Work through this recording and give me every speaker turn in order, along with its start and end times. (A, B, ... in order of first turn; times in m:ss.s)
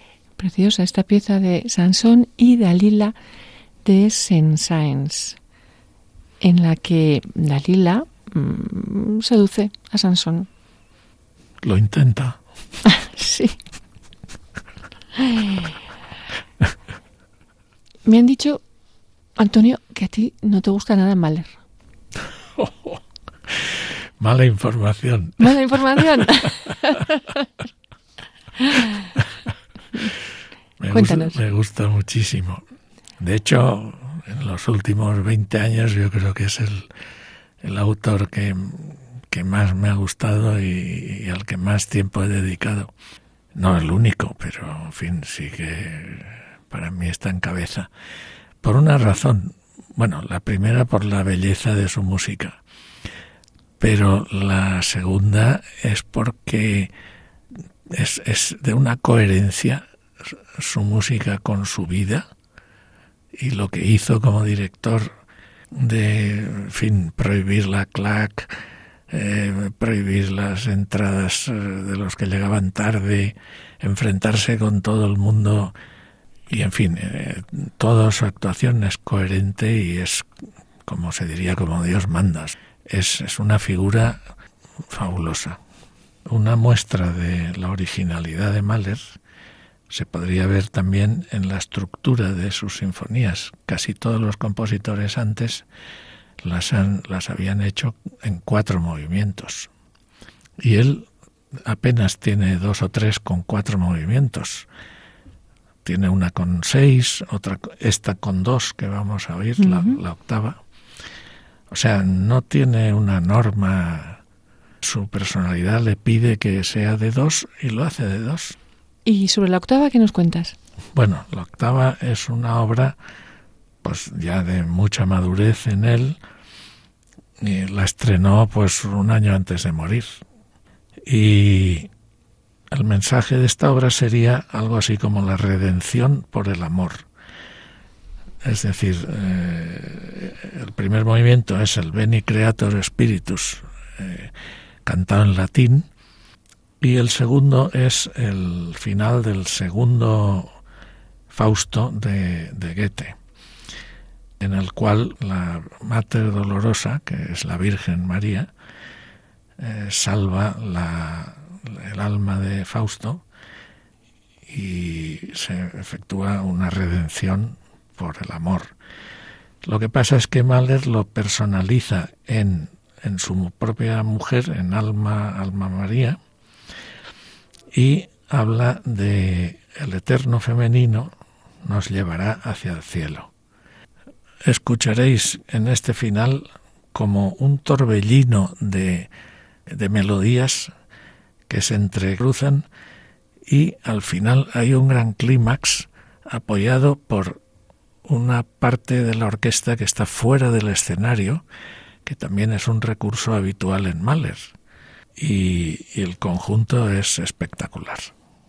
0:00.4-0:03.1 A
0:03.8-0:05.4 A
0:06.4-0:10.5 A
0:11.6-0:12.4 B
0:12.8-0:13.6 A
0:15.3-0:15.5 A
0:18.0-0:18.6 A
0:19.4-0:21.6 A
0:22.5-0:26.5 B
0:25.4-0:27.4 A
0:28.6-0:29.1 A
0:30.8-0:32.6 B
0:30.9-0:31.4 A
0:33.2-0:36.9 B
0:37.6-0:42.9 B
0:43.5-0:47.9 B
0:48.6-0:52.6 B
0:53.8-0:56.9 B
0:57.8-1:02.3 B
1:03.3-1:05.1 B
1:05.7-1:15.7 B
1:16.5-1:20.3 B
1:20.8-1:24.2 B
1:24.9-1:25.6 B
1:26.2-1:29.2 B
1:29.9-1:35.6 B
1:36.4-1:39.7 B
1:40.6-1:44.7 B
1:45.8-1:50.6 B
1:49.6-1:50.0 A
1:51.7-1:54.2 B
1:54.8-1:58.6 B
1:59.0-2:00.5 A
2:00.9-2:03.0 B
2:03.8-2:06.2 B
2:07.4-2:10.2 B
2:11.0-2:11.9 B
2:12.7-2:17.1 B
2:18.4-2:24.3 B
2:24.8-2:25.9 B
2:26.8-2:30.6 B
2:31.3-2:33.2 B
2:34.4-2:38.5 B
2:39.6-2:43.2 B
2:44.4-2:48.8 B
2:49.6-2:56.2 B
2:57.7-3:03.3 B
3:04.4-3:09.1 B
3:09.7-3:10.7 B
3:11.5-3:12.7 B
3:13.4-3:17.4 B
3:18.0-3:21.4 B
3:22.0-3:24.5 B
3:25.2-3:28.1 B